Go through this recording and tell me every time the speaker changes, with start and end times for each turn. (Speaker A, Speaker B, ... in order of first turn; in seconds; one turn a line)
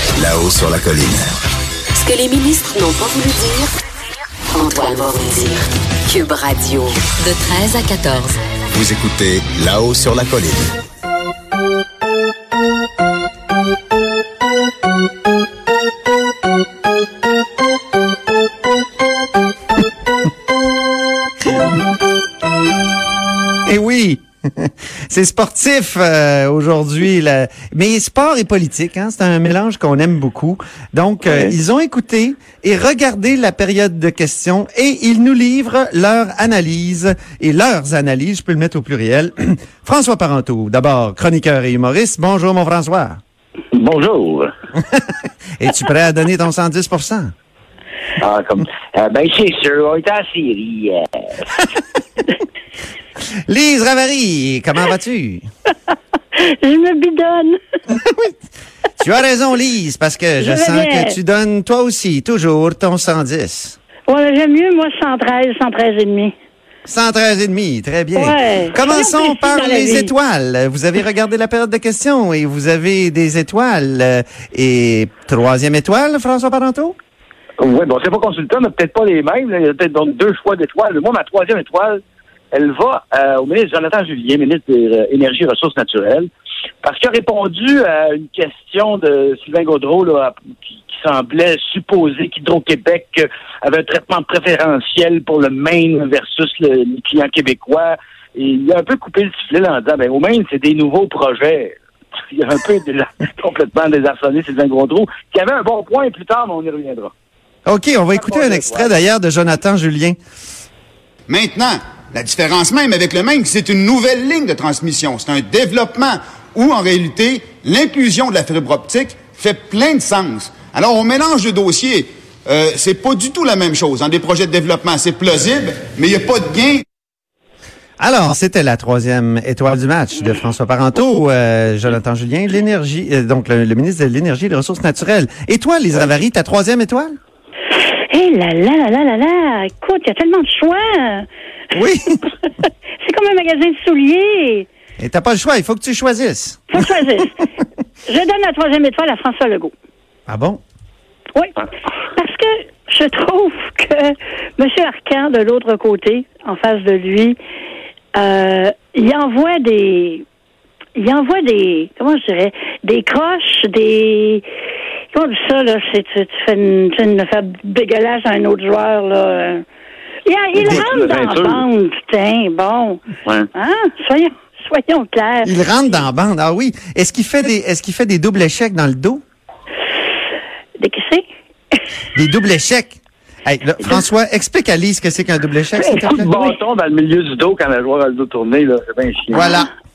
Speaker A: 0.2-1.3
Speaker B: 1.9-3.7
Speaker B: 4.5-8.4
Speaker A: 8.8-10.7
Speaker C: 23.6-43.2
Speaker D: 31.2-31.5
Speaker D: 43.7-44.5
Speaker C: 44.8-47.3
Speaker D: 48.2-51.5
Speaker C: 53.5-55.5
Speaker E: 56.4-57.6
Speaker C: 57.9-58.4
Speaker C: 59.0-63.8
Speaker E: 60.4-61.1
Speaker E: 64.1-66.3
Speaker C: 66.9-77.0
Speaker E: 68.2-70.1
Speaker D: 77.6-82.0
Speaker D: 82.5-86.3
Speaker D: 86.8-101.8
Speaker D: 102.3-107.1
Speaker C: 107.7-110.2
Speaker D: 108.2-108.9
Speaker F: 111.3-126.8
Speaker C: 128.0-137.1
Speaker E: 138.1-141.3
Speaker C: 141.7-142.3
Speaker E: 143.0-144.7
Speaker C: 145.0-146.8
Speaker E: 146.7-147.4
Speaker E: 148.1-149.7
Speaker C: 150.3-150.6
Speaker E: 152.2-157.4
Speaker E: 158.1-160.2
Speaker E: 161.0-164.4
Speaker E: 165.1-169.6
Speaker E: 170.3-173.0
Speaker D: 170.5-171.6
Speaker E: 173.5-175.5
Speaker C: 175.4-179.2
Speaker E: 180.8-181.8
Speaker C: 182.2-186.3
Speaker D: 186.0-189.6
Speaker E: 186.2-186.5
Speaker C: 189.3-189.7